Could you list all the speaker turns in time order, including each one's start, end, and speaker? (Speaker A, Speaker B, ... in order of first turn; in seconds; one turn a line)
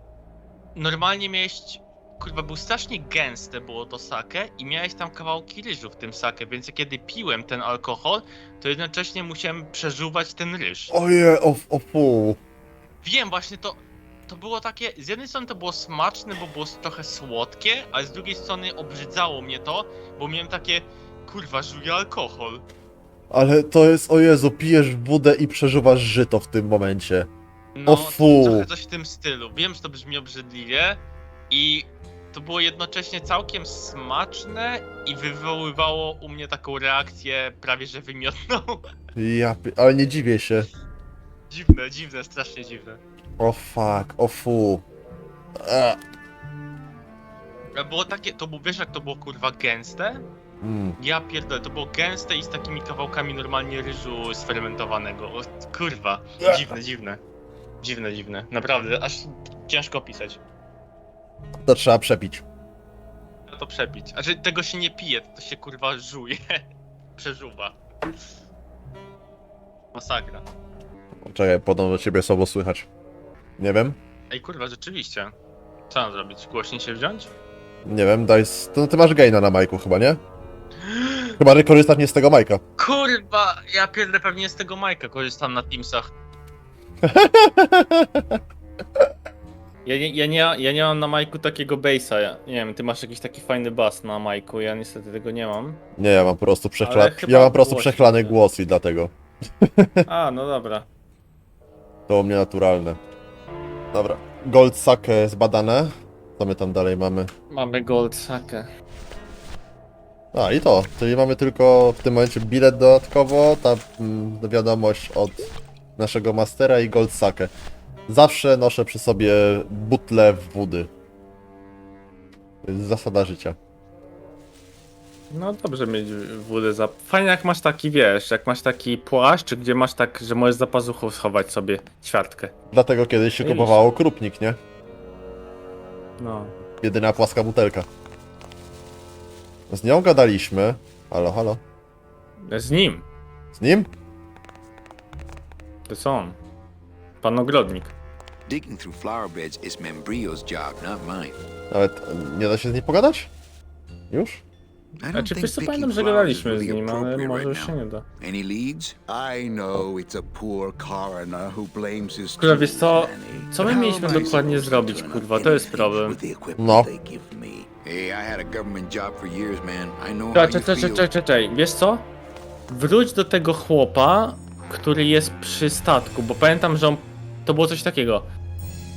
Speaker A: 0.8-10.9
Speaker B: 10.9-12.4
Speaker A: 13.0-22.6
Speaker B: 23.3-27.3
Speaker A: 27.8-38.9
Speaker B: 27.9-28.7
Speaker B: 39.1-40.7
Speaker A: 41.5-43.0
Speaker B: 43.4-44.9
Speaker B: 45.6-46.0
Speaker A: 47.8-50.3
Speaker B: 50.6-51.0
Speaker A: 51.0-57.2
Speaker B: 56.4-56.8
Speaker A: 57.8-60.4
Speaker B: 61.6-62.5
Speaker A: 63.5-66.6
Speaker A: 67.2-67.8
Speaker A: 69.9-70.5
Speaker B: 71.2-72.9
Speaker B: 73.6-74.0
Speaker A: 74.3-75.3
Speaker A: 75.9-77.3
Speaker B: 77.8-80.2
Speaker A: 80.8-81.4
Speaker B: 81.4-82.6
Speaker A: 82.8-86.1
Speaker B: 87.0-88.4
Speaker A: 89.8-95.8
Speaker B: 96.0-100.0
Speaker A: 96.8-98.3
Speaker A: 100.1-100.9
Speaker B: 102.1-103.0
Speaker B: 103.9-107.3
Speaker A: 107.5-108.7
Speaker B: 110.3-117.5
Speaker B: 118.1-120.9
Speaker B: 122.6-123.6
Speaker A: 125.3-132.5
Speaker B: 132.7-134.6
Speaker A: 133.4-133.8
Speaker A: 136.2-136.5
Speaker B: 136.8-137.9
Speaker B: 139.7-141.6
Speaker A: 142.4-143.0
Speaker B: 143.5-143.9
Speaker A: 145.9-146.4
Speaker A: 147.2-147.9
Speaker C: 148.5-151.4
Speaker B: 151.7-153.3
Speaker B: 154.1-154.4
Speaker C: 155.0-159.0
Speaker A: 155.1-158.0
Speaker D: 159.1-162.4
Speaker A: 162.4-166.2
Speaker C: 162.4-171.1
Speaker B: 166.6-166.9
Speaker A: 170.3-172.1
Speaker A: 172.7-178.3